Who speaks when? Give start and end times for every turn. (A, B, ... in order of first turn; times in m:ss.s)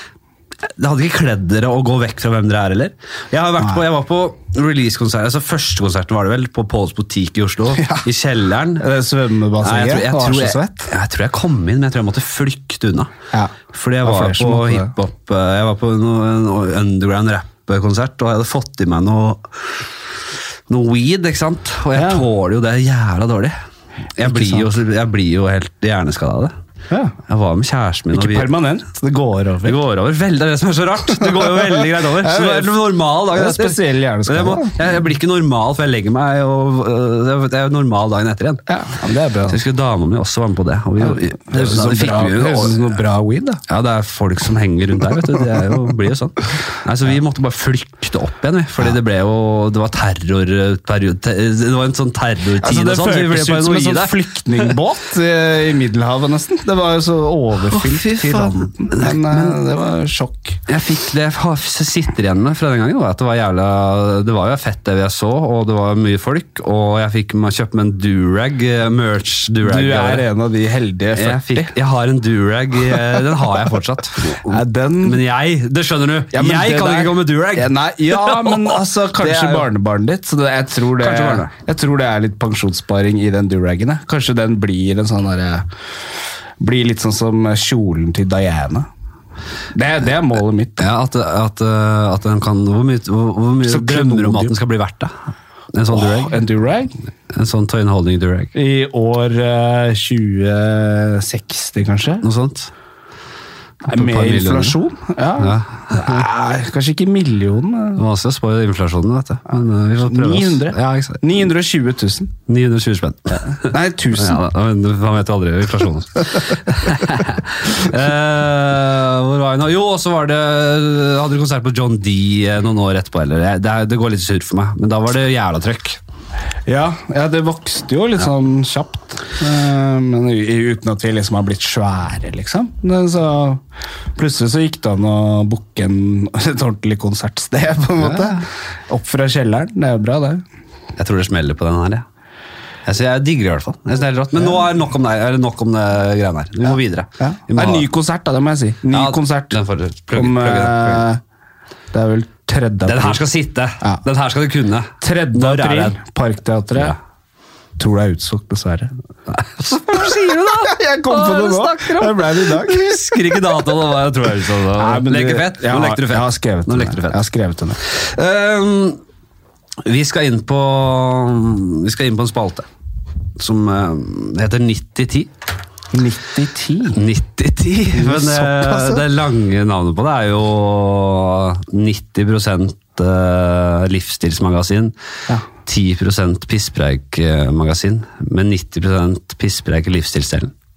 0:00.6-0:08.8 A
0:07.7-0:08.0 B
0:08.8-0:10.9 B
0:09.6-0:13.1 A
0:13.3-0:14.9 B
0:13.7-0:19.8 A
0:20.7-0:23.6 A
0:21.9-0:22.2 B
0:24.2-0:26.5 A
0:24.2-0:24.7 B
0:26.9-0:27.2 B
0:27.2-0:28.5 A
0:28.1-0:29.8 B
0:29.6-0:38.6 A
0:31.2-0:32.8 B
0:33.3-0:34.9 B
0:38.7-0:39.6 B
0:39.5-0:43.0 A
0:41.0-0:43.6 B
0:43.7-0:54.7 A
0:52.6-1:00.6 B
0:57.6-0:59.6 A
1:00.7-1:10.2 A
1:09.6-1:11.7 B
1:11.1-1:19.7 A
1:14.2-1:15.2 B
1:16.3-1:25.7 B
1:21.0-1:21.5 A
1:26.6-1:28.9 B
1:29.7-1:30.9 B
1:30.8-1:35.2 A
1:33.6-1:34.6 B
1:35.7-1:36.4 A
1:35.9-1:36.9 B
1:37.3-1:38.5 A
1:38.5-1:42.2 B
1:42.2-1:42.7 A
1:43.8-1:48.0 B
1:43.9-1:44.8 A
1:45.4-1:46.2 A
1:48.0-1:51.2 A
1:50.0-1:52.3 B
1:52.5-2:06.0 A
1:53.5-1:54.4 B
2:06.6-2:13.6 B
2:14.2-2:20.4 B
2:18.0-2:18.4 A
2:21.0-2:22.0 A
2:22.8-2:27.8 A
2:27.2-2:29.6 B
2:28.9-2:31.1 A
2:30.1-2:31.2 B
2:31.9-2:33.2 B
2:32.8-2:36.0 A
2:35.0-2:37.0 B
2:37.8-2:38.9 B
2:39.3-2:47.2 A
2:40.5-2:43.2 B
2:44.8-2:47.8 B
2:47.8-2:49.0 A
2:49.8-2:52.7 A
2:53.4-2:55.3 A
2:55.9-2:57.0 B
2:56.9-3:04.9 A
2:57.9-2:59.0 B
3:05.6-3:10.5 A